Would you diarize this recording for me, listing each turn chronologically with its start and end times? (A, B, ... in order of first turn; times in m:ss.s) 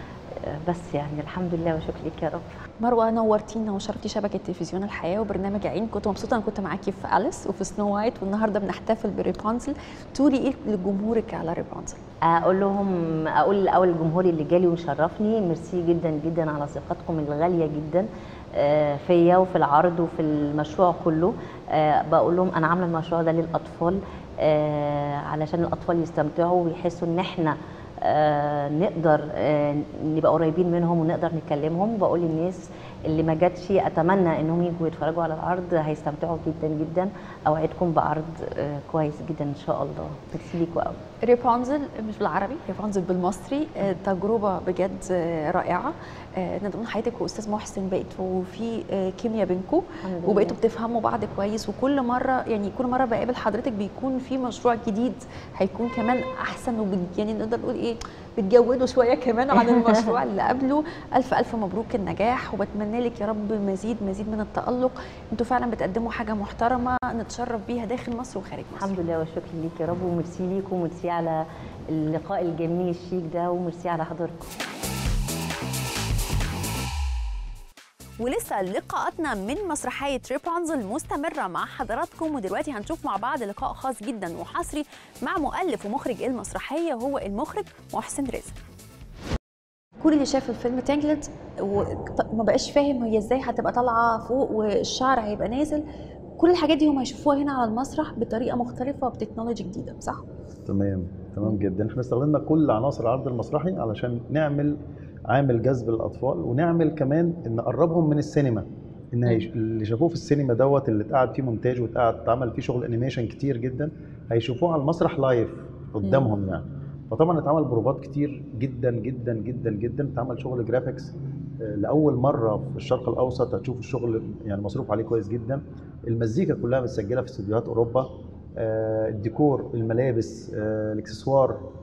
0:00.4-0:02.6 A
0:02.8-0:12.0 B
0:12.3-0:41.0 A
0:41.2-1:08.9 B
0:50.0-0:50.6 A
0:59.6-1:00.1 A
1:08.8-1:14.5 A
1:18.2-1:28.5 B
1:30.0-1:35.8 B
1:36.4-1:40.2 B
1:40.6-2:11.6 C
1:56.0-1:56.3 B